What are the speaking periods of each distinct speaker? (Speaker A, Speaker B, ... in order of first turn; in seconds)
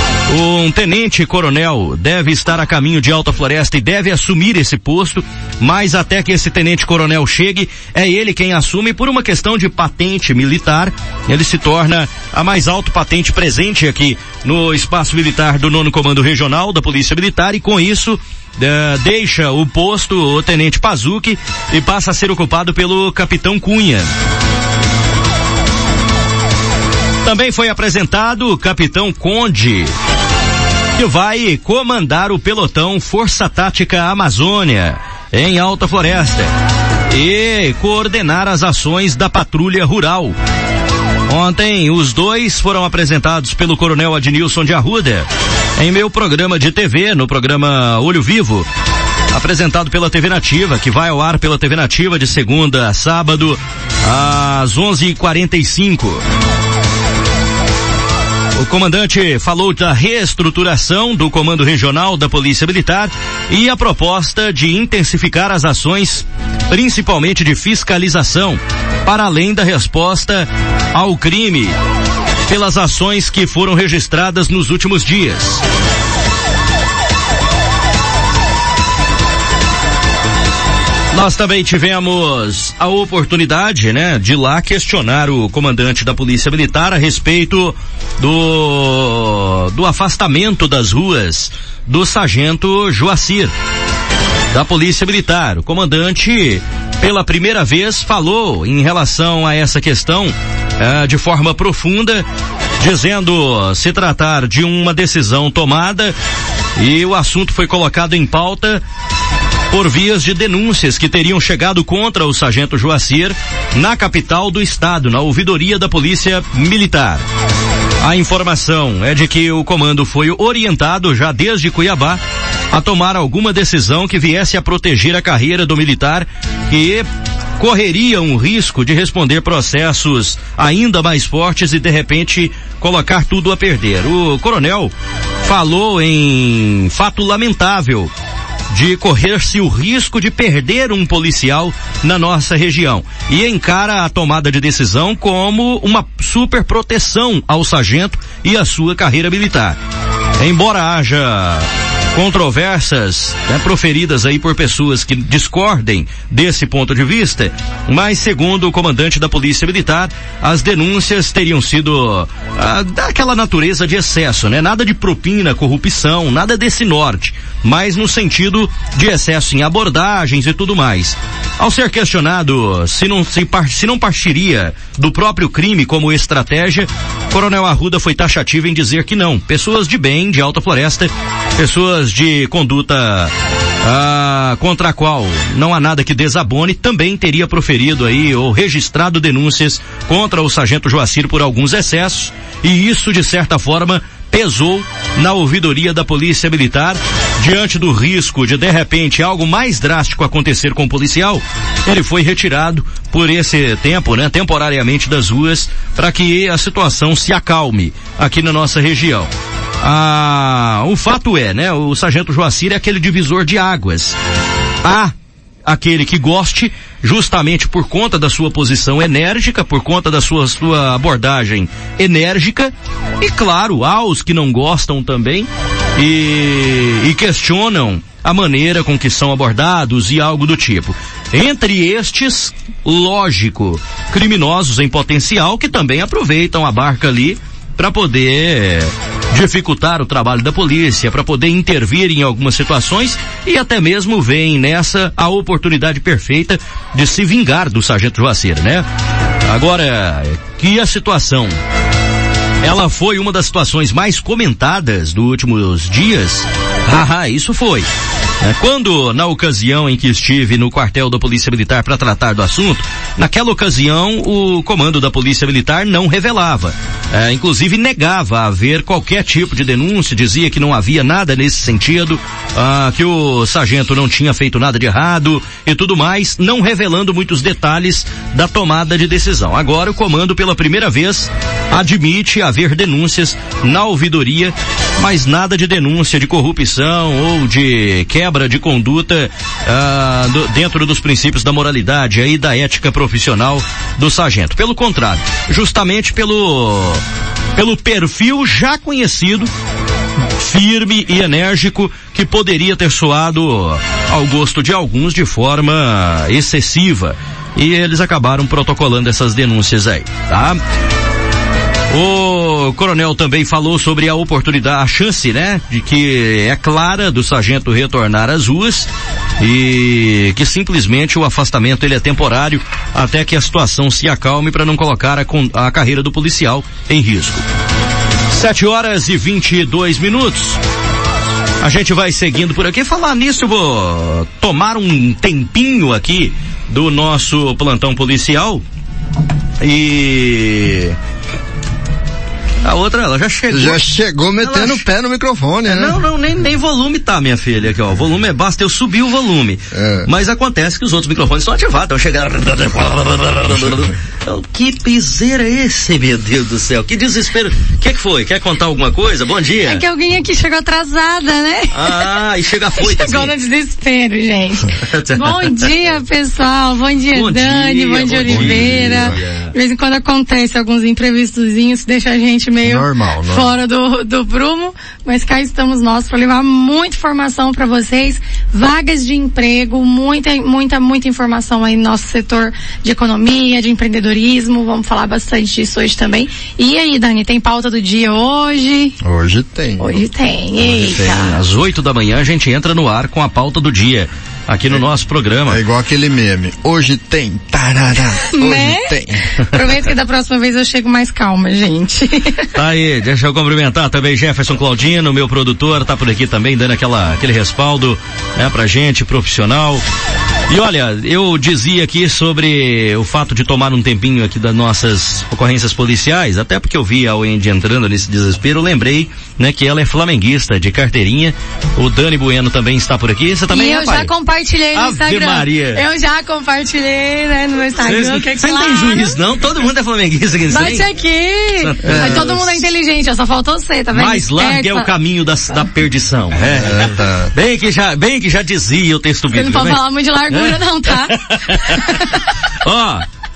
Speaker A: 0.3-24.1, 27.2-29.9, 30.9-36.5, 37.1-40.4, 41.3-48.7, 49.3-56.2, 58.5-71.8, 72.5-75.6, 81.1-93.5, 94.5-102.2, 102.8-106.2, 106.8-108.8, 109.7-117.2, 118.0-122.2, 122.7-127.0, 127.6-134.9, 135.4-138.1, 138.7-149.8, 150.4-183.3, 183.8-209.3, 209.8-214.2, 214.8-215.1, 215.7-248.9, 249.4-251.6, 252.6-257.9, 258.4-297.0, 297.6-299.5, 300.4-310.6, 311.9-327.4, 328.3-330.6, 331.6-338.6, 339.6-340.9, 342.6-343.8, 344.4-344.8, 345.6-359.8, 361.7-363.3, 364.8-365.7, 367.1-369.5, 391.0-395.6, 402.5-409.8, 410.5-424.1, 424.7-425.8, 427.8-430.9, 431.6-432.3, 433.9-442.1, 442.6-443.0
Speaker B: 343.5-346.0, 349.7-350.1, 368.3-369.2, 372.6-373.6, 389.0-390.0, 390.6-391.4, 395.5-399.3, 431.8-432.4, 436.5-437.3
Speaker C: 359.6-362.1, 362.8-388.9, 389.8-391.4, 398.3-402.5, 423.5-429.2, 430.5-434.9, 439.3-442.2